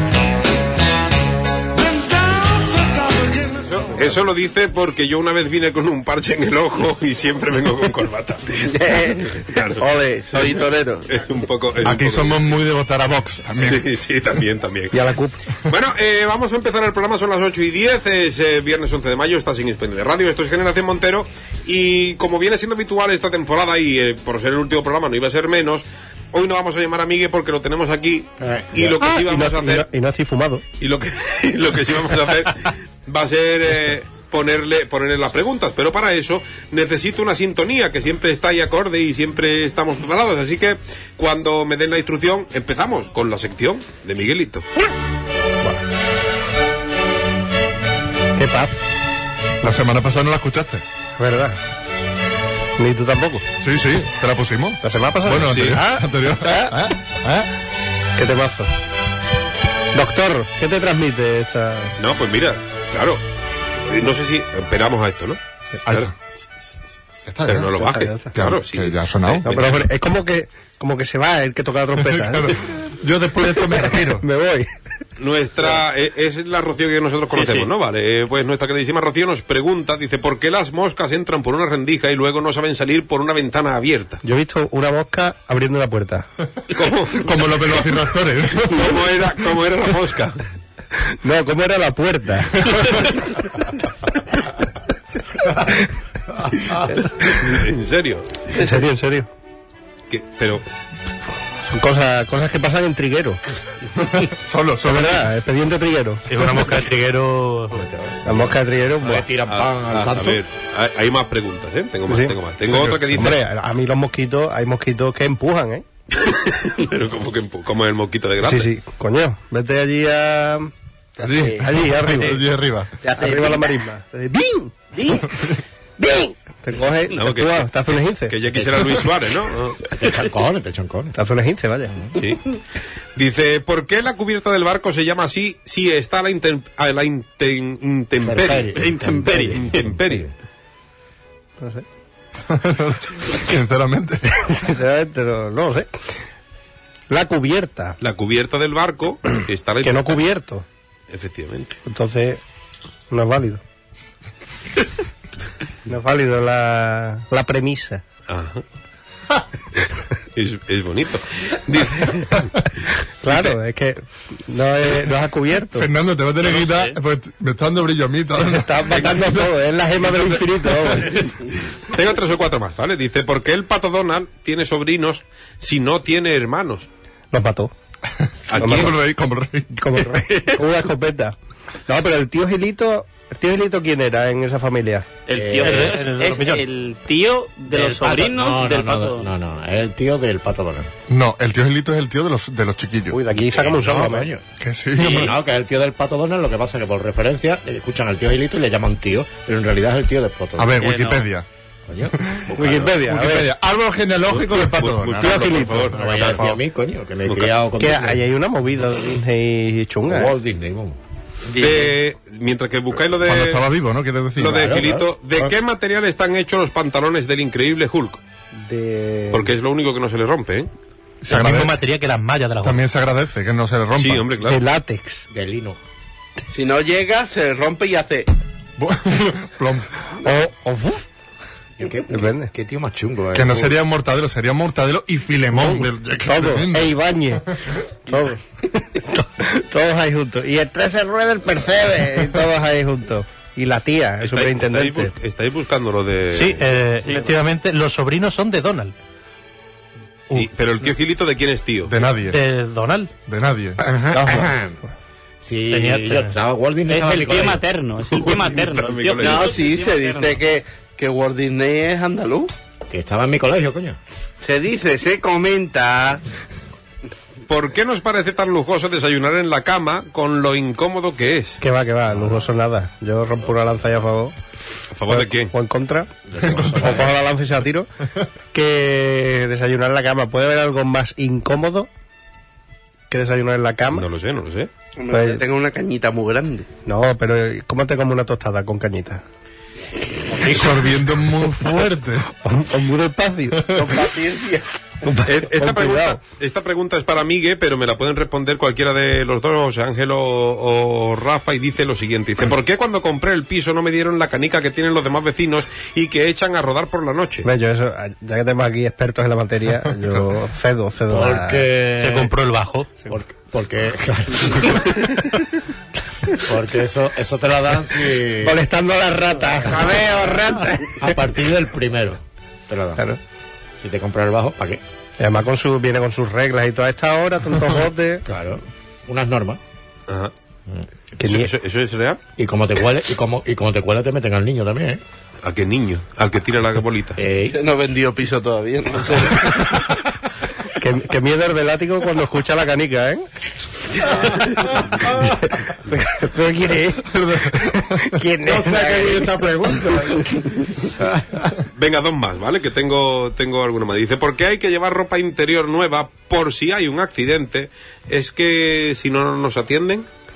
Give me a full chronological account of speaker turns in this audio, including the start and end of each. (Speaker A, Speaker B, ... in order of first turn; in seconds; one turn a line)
Speaker A: 1.7-3.7
Speaker B: 3.7-8.7
Speaker C: 8.7-11.1
Speaker B: 9.4-10.6
Speaker B: 11.1-12.4
Speaker D: 11.8-13.9
Speaker B: 13.6-15.1
Speaker E: 14.9-15.4
Speaker B: 15.7-29.9
Speaker F: 28.4-28.9
Speaker E: 29.0-30.6
Speaker B: 30.8-44.6
Speaker E: 48.4-48.8
Speaker D: 49.6-50.8
Speaker E: 51.2-51.6
Speaker E: 52.8-53.5
Speaker D: 53.6-57.5
Speaker E: 54.8-56.9
Speaker B: 55.5-55.8
Speaker E: 58.2-58.7
Speaker E: 59.9-62.0
Speaker B: 62.0-63.2
Speaker B: 63.9-65.4
Speaker D: 65.8-66.1
Speaker D: 67.3-67.8
Speaker B: 67.5-69.9
Speaker E: 67.8-68.3
Speaker D: 68.3-69.5
Speaker E: 69.4-72.6
Speaker D: 72.0-74.2
Speaker E: 73.5-74.7
Speaker B: 75.2-84.2
Speaker G: 77.3-77.7
Speaker E: 84.2-86.3
Speaker B: 86.7-87.3
Speaker D: 87.2-89.0
Speaker B: 88.7-90.4
Speaker E: 91.2-93.4
Speaker E: 96.9-97.6
Speaker B: 97.3-98.4
Speaker E: 98.5-99.3
Speaker B: 100.1-100.7
Speaker E: 101.7-103.4
Speaker D: 104.1-105.3
Speaker E: 104.8-106.3
Speaker H: 106.3-107.9
Speaker F: 107.7-110.4
Speaker E: 108.3-109.3
Speaker B: 109.5-113.4
Speaker E: 112.1-112.3
Speaker D: 112.7-113.1
Speaker E: 113.1-115.8
Speaker B: 116.2-118.7
Speaker E: 118.4-120.7
Speaker D: 121.2-122.9
Speaker C: 121.4-121.6
Speaker E: 121.6-122.5
Speaker C: 123.0-123.7
Speaker E: 123.2-125.4
Speaker C: 125.0-125.2
Speaker E: 126.0-128.4
Speaker B: 127.1-129.8
Speaker F: 129.9-131.2
Speaker E: 131.2-132.2
Speaker B: 132.2-132.4
Speaker B: 133.2-138.9
Speaker F: 138.2-140.3
Speaker G: 138.7-140.0
Speaker B: 139.5-140.3
Speaker E: 141.6-141.8
Speaker D: 142.5-144.5
Speaker E: 144.5-145.9
Speaker E: 147.1-148.0
Speaker B: 148.0-150.2
Speaker E: 149.8-150.7
Speaker B: 151.1-151.8
Speaker E: 151.9-152.4
Speaker E: 153.1-153.6
Speaker E: 155.9-158.0
Speaker B: 158.3-158.6
Speaker B: 159.7-162.6
Speaker E: 163.2-165.9
Speaker B: 163.3-163.6
Speaker D: 165.8-169.5
Speaker G: 166.4-167.0
Speaker E: 168.4-171.3
Speaker B: 171.9-176.9
Speaker E: 177.3-177.7
Speaker B: 178.5-178.9
Speaker D: 178.5-179.7
Speaker E: 178.6-178.9
Speaker E: 179.7-181.3
Speaker E: 181.9-185.1
Speaker G: 185.3-189.3
Speaker F: 185.3-186.0
Speaker H: 185.6-186.7
Speaker F: 187.7-190.9
Speaker D: 191.1-193.2
Speaker E: 193.1-194.3
Speaker F: 193.5-194.4
Speaker D: 194.6-195.3
Speaker F: 195.0-200.8
Speaker G: 195.0-195.4
Speaker D: 200.6-201.5
Speaker G: 200.8-201.3
Speaker F: 201.9-203.0
Speaker D: 202.2-206.6
Speaker E: 202.6-203.5
Speaker B: 204.3-206.4
Speaker E: 205.2-205.9
Speaker F: 205.9-208.3
Speaker B: 207.3-207.5
Speaker E: 207.8-210.3
Speaker F: 210.1-211.0
Speaker C: 211.6-211.8
Speaker B: 211.6-213.7
Speaker D: 213.2-214.8
Speaker B: 214.4-218.2
Speaker F: 214.5-215.1
Speaker E: 218.6-219.5
Speaker B: 219.3-220.7
Speaker D: 221.2-221.8
Speaker H: 221.3-222.8
Speaker D: 222.6-224.3
Speaker B: 224.0-224.6
Speaker E: 224.4-225.2
Speaker F: 225.3-225.8
Speaker C: 226.5-228.3
Speaker D: 228.8-229.9
Speaker E: 230.2-231.1
Speaker F: 231.8-233.7
Speaker E: 232.1-232.5
Speaker D: 233.3-237.0
Speaker E: 235.6-237.5
Speaker E: 238.1-245.1
Speaker B: 244.2-246.7
Speaker H: 246.3-248.9
Speaker G: 247.0-247.3
Speaker B: 250.3-251.9
Speaker D: 251.9-252.4
Speaker H: 252.3-253.1
Speaker D: 253.3-253.8
Speaker F: 253.8-254.8
Speaker E: 254.1-254.5
Speaker F: 255.4-257.6
Speaker H: 255.7-256.4
Speaker G: 256.9-260.4
Speaker B: 258.1-259.6
Speaker C: 259.2-262.5
Speaker F: 262.9-264.0
Speaker C: 264.4-266.2
Speaker B: 267.5-271.6
Speaker E: 271.6-274.3
Speaker F: 272.2-272.4
Speaker B: 274.9-275.5
Speaker E: 275.1-276.1
Speaker F: 276.3-277.2
Speaker D: 276.4-277.0
Speaker E: 276.8-277.9
Speaker E: 278.5-281.9
Speaker E: 283.1-284.1
Speaker B: 283.9-284.7
Speaker C: 285.0-286.7
Speaker E: 285.1-285.4
Speaker E: 286.9-289.2
Speaker E: 290.4-290.7
Speaker D: 290.4-292.3
Speaker E: 292.4-294.1
Speaker C: 293.8-294.6
Speaker E: 295.0-296.2
Speaker B: 295.3-307.5
Speaker E: 307.4-311.7
Speaker F: 311.1-312.3
Speaker H: 312.0-313.0
Speaker F: 313.1-315.1
Speaker F: 316.4-318.6
Speaker E: 318.4-321.1
Speaker F: 319.6-320.1
Speaker F: 321.0-323.1
Speaker F: 323.8-324.8
Speaker E: 325.2-328.2
Speaker F: 328.3-329.6
Speaker B: 330.1-330.3
Speaker E: 331.2-331.5
Speaker B: 331.2-332.2
Speaker F: 332.4-335.0
Speaker B: 335.4-337.2
Speaker F: 337.2-337.6
Speaker C: 337.5-339.5
Speaker E: 340.8-343.3
Speaker E: 344.1-350.2
Speaker D: 348.5-350.2
Speaker B: 351.8-360.1